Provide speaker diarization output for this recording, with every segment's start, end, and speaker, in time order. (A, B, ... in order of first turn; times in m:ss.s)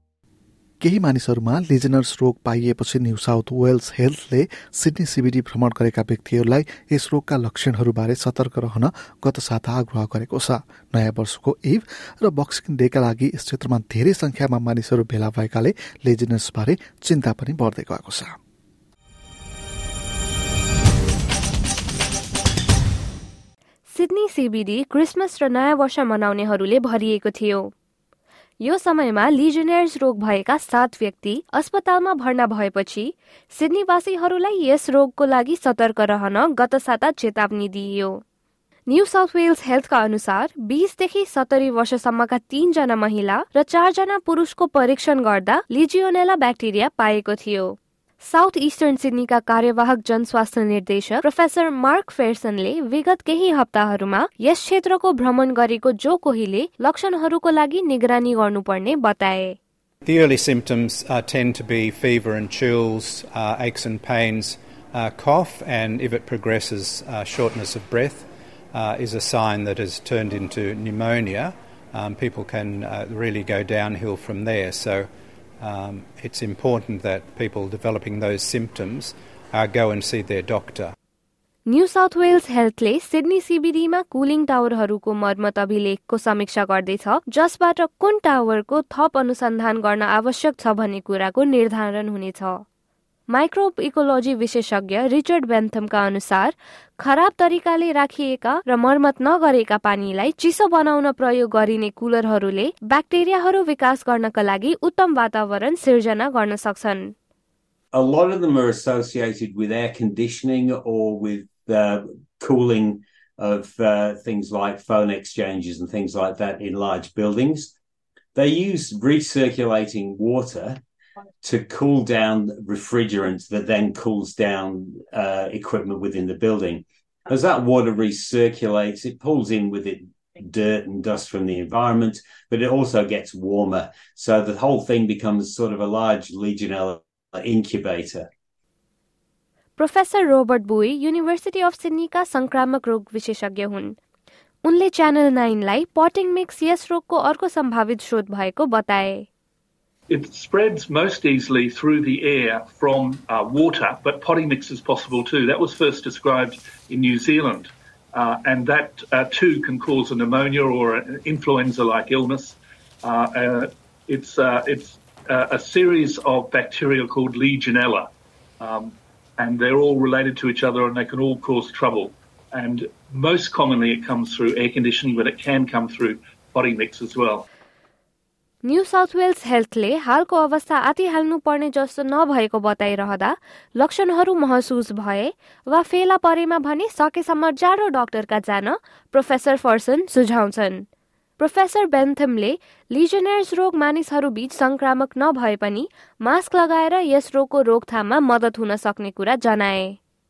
0:00.8-0:18.3 A
0:23.9-0:27.7 B
0:28.6-0:38.1 B
0:38.9-0:47.7 B
0:48.2-0:59.6 B
1:00.0-1:15.1 C
1:15.6-1:20.9 C
1:21.7-1:32.6 B
1:33.3-1:47.1 B
1:47.9-1:57.7 D
1:58.4-2:00.8 D
2:01.4-2:18.3 D
2:19.8-2:24.0 B
2:24.6-2:29.3 B
2:30.1-2:48.1 E
2:48.6-2:57.5 E
2:58.6-3:10.8 B
3:11.4-3:20.0 B